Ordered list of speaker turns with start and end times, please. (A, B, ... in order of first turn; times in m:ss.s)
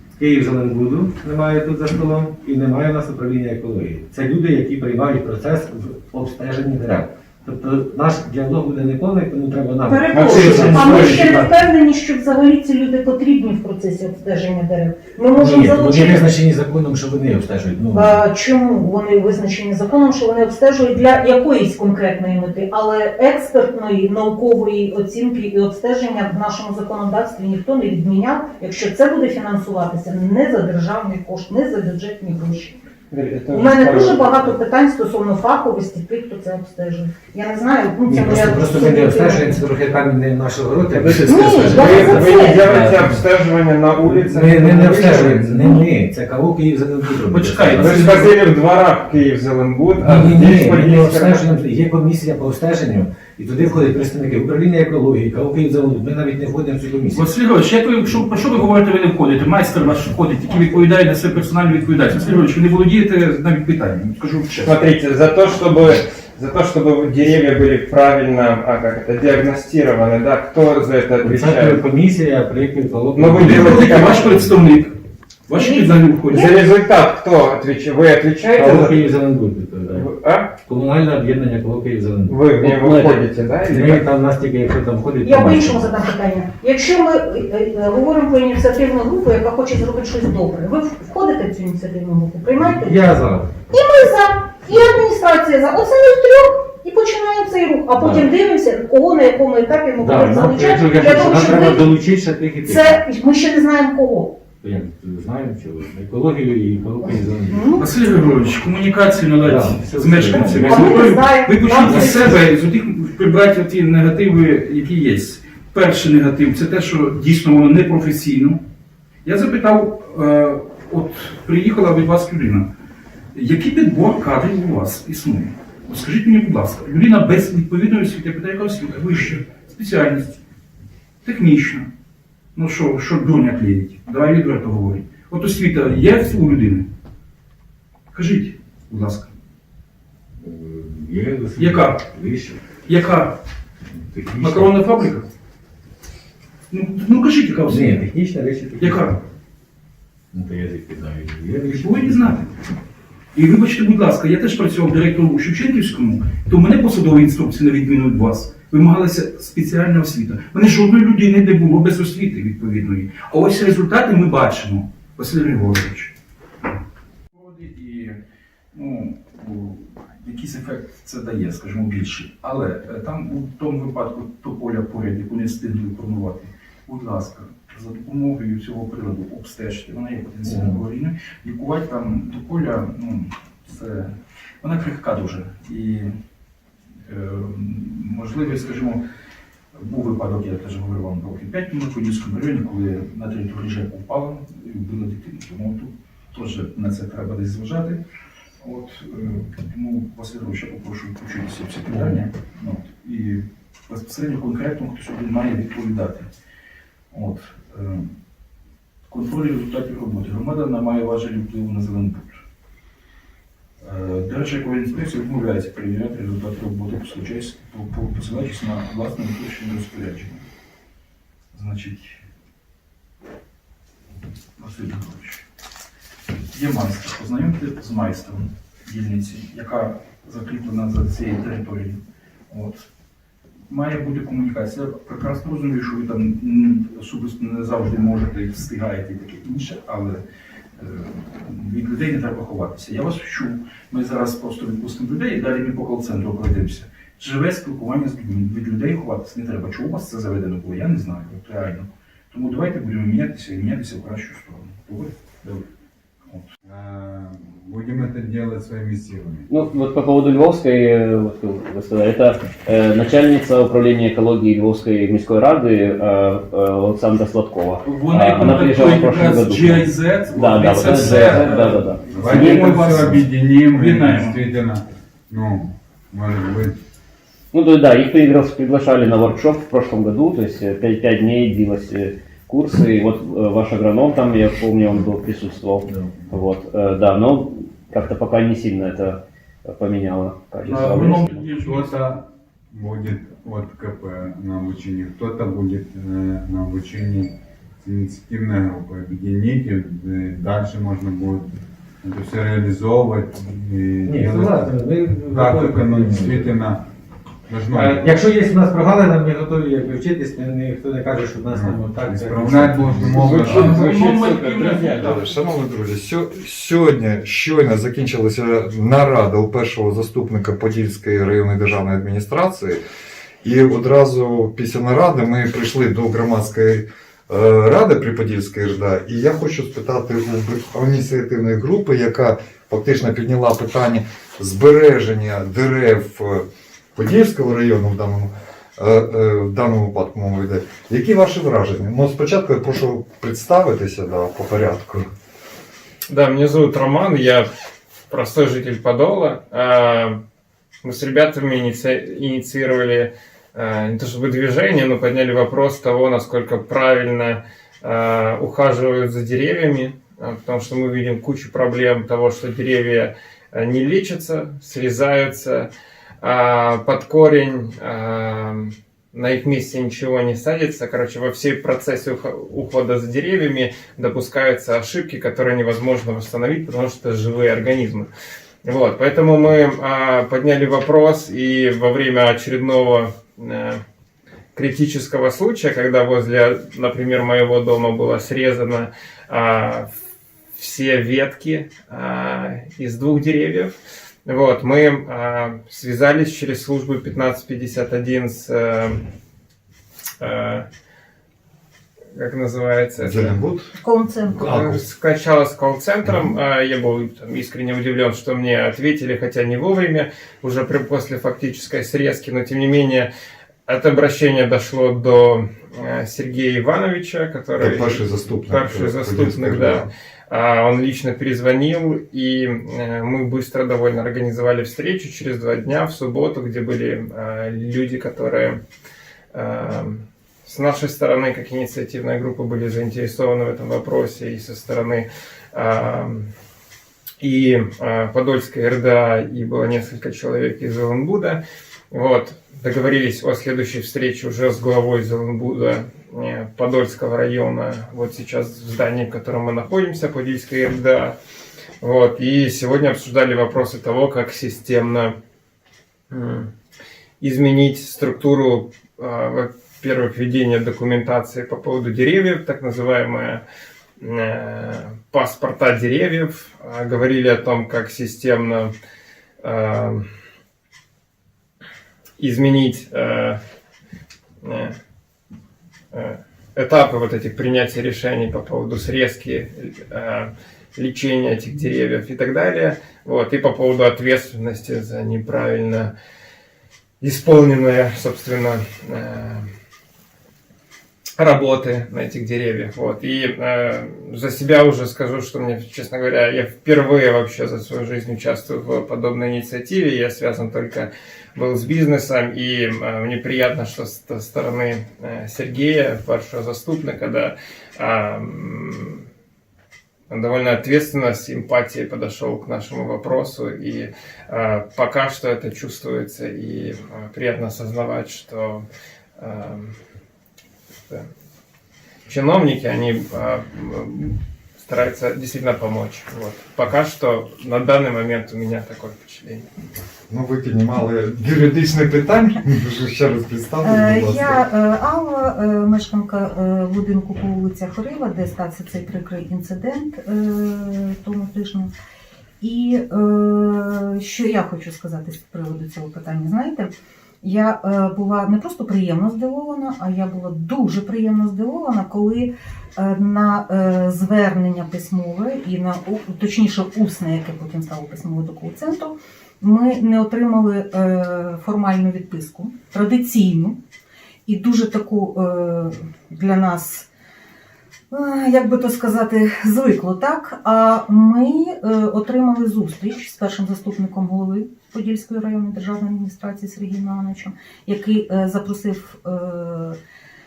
0:00.1-0:11.7 A
0:09.9-0:16.3 B
0:10.1-0:11.4 C
0:15.3-0:18.2 A
0:17.9-0:32.8 B
0:33.1-0:34.6 C
0:33.5-0:39.6 B
0:38.1-0:43.3 A
0:40.9-0:45.9 C
0:41.3-0:42.8 B
0:44.0-0:48.3 A
0:47.3-0:48.3 D
0:47.8-0:51.5 C
0:50.0-0:57.3 A
0:57.1-1:04.8 D
1:04.6-1:11.8 C
1:11.2-1:14.3 A
1:13.1-1:14.4 C
1:13.4-1:16.6 D
1:15.6-1:16.5 B
1:16.3-1:19.1 C
1:18.5-1:26.0 A
1:19.9-1:20.5 C
1:22.3-1:24.1 C
1:22.7-1:23.2 E
1:25.2-1:33.2 B
1:32.5-1:33.5 A
1:33.7-1:42.0 B
1:38.0-1:38.3 A
1:40.0-1:43.0 A
1:42.6-1:44.4 B
1:44.6-1:47.9 A
1:47.5-1:47.9 B
1:47.8-1:58.6 D
1:49.4-1:52.4 A
1:50.6-1:52.4 B
1:59.2-2:02.7 D
2:03.3-2:10.4 D
2:11.2-2:11.9 D
2:12.6-2:16.9 D
2:18.1-2:19.3 D
2:20.4-2:22.6 A
2:21.6-2:22.1 D
2:22.8-2:23.4 D
2:24.1-2:24.8 A
2:24.4-2:25.3 D
2:26.7-2:28.1 D
2:27.7-2:29.2 A
2:28.8-2:29.2 D
2:30.3-2:32.5 A
2:31.7-2:32.4 D
2:33.3-2:46.1 D
2:47.3-2:48.2 D
2:48.7-3:06.1 D
3:00.4-3:00.8 A
3:07.1-3:09.0 D
3:09.8-3:18.0 D
3:18.6-3:26.3 D
3:21.9-3:22.2 A
3:27.1-3:28.1 D
3:29.1-3:32.4 D
3:33.8-3:40.4 D
3:41.5-3:42.2 D
3:44.6-3:45.4 D
3:46.5-3:52.9 D
3:53.7-4:00.2 D
4:00.8-4:15.1 D
4:16.6-4:19.5 F
4:19.5-4:33.2 E
4:27.8-4:34.4 D
4:30.6-4:31.5 F
4:32.1-4:36.8 F
4:37.5-4:51.5 E
4:50.6-4:52.2 D
4:50.8-4:51.1 F
4:51.6-5:01.5 F
5:02.0-5:06.8 F
5:04.0-5:06.6 A
5:07.5-5:08.2 F
5:07.7-5:13.4 A
5:11.5-5:14.0 F
5:13.1-5:15.3 C
5:13.4-5:15.2 D
5:14.9-5:22.8 G
5:23.4-5:45.1 G
5:46.1-5:47.5 C
5:48.1-5:50.2 C
5:50.8-6:05.7 C
6:06.2-6:18.1 C
6:18.6-6:23.8 C
6:24.6-6:29.9 C
6:30.5-6:39.0 C
6:40.2-6:40.7 C
6:42.1-6:43.4 C
6:43.0-6:43.7 G
6:43.8-6:44.5 B
6:44.4-6:44.8 G
6:44.4-6:53.1 C
6:53.7-7:08.6 C
6:57.6-6:59.9 G
7:09.3-7:16.3 C
7:17.2-7:21.4 C
7:21.9-7:31.2 C
7:31.8-7:35.2 C
7:36.1-7:36.5 C
7:37.2-7:43.4 C
7:44.0-7:48.7 C
7:49.4-7:50.1 C
7:52.2-7:53.4 C
7:54.4-7:54.8 C
7:55.9-8:05.9 C
8:07.0-8:09.5 C
8:11.2-8:29.1 C
8:30.1-8:38.6 C
8:39.2-8:39.8 C
8:42.1-8:49.5 C
8:50.1-8:54.4 G
8:53.6-9:01.7 B
9:02.4-9:06.7 B
9:07.2-9:23.6 B
9:24.3-9:26.9 B
9:27.9-9:39.8 B